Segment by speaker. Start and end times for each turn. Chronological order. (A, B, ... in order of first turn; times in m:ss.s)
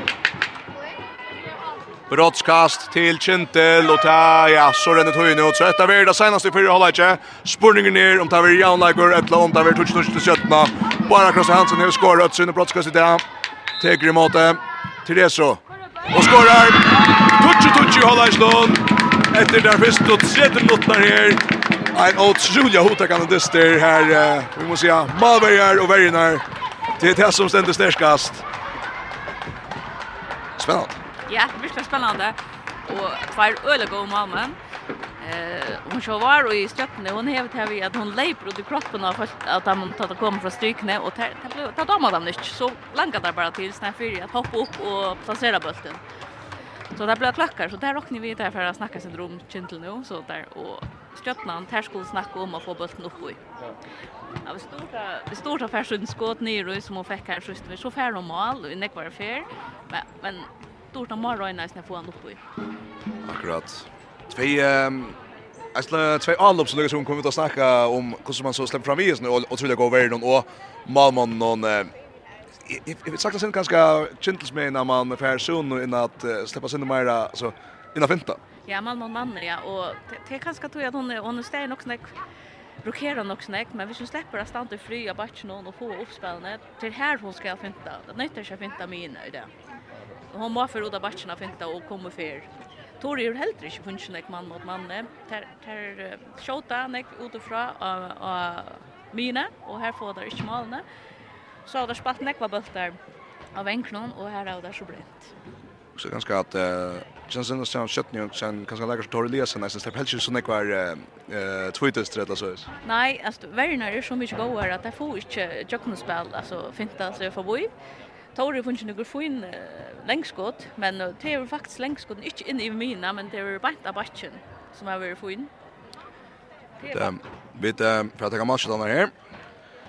0:02.1-0:13.2 A
0:13.8-0:15.6 A
0:16.1-0:21.4 A
0:21.9-0:26.4 A
0:27.0-0:28.4 A
0:30.6-0:30.9 A
0:31.3-0:34.6 B
0:35.2-0:46.0 B
0:46.9-0:53.4 B
0:54.4-1:02.4 B
1:03.2-1:05.2 A
1:05.7-1:11.9 A
1:12.6-1:18.4 A
1:18.7-1:22.1 B
1:22.8-1:29.5 B
1:30.3-1:32.5 B
1:33.0-1:40.8 B
1:41.6-1:43.0 B
1:43.5-1:45.3 B
1:46.0-1:52.7 A
1:52.8-1:57.7 B
1:58.3-2:05.5 B
2:06.8-2:07.1 B
2:06.9-2:09.1 A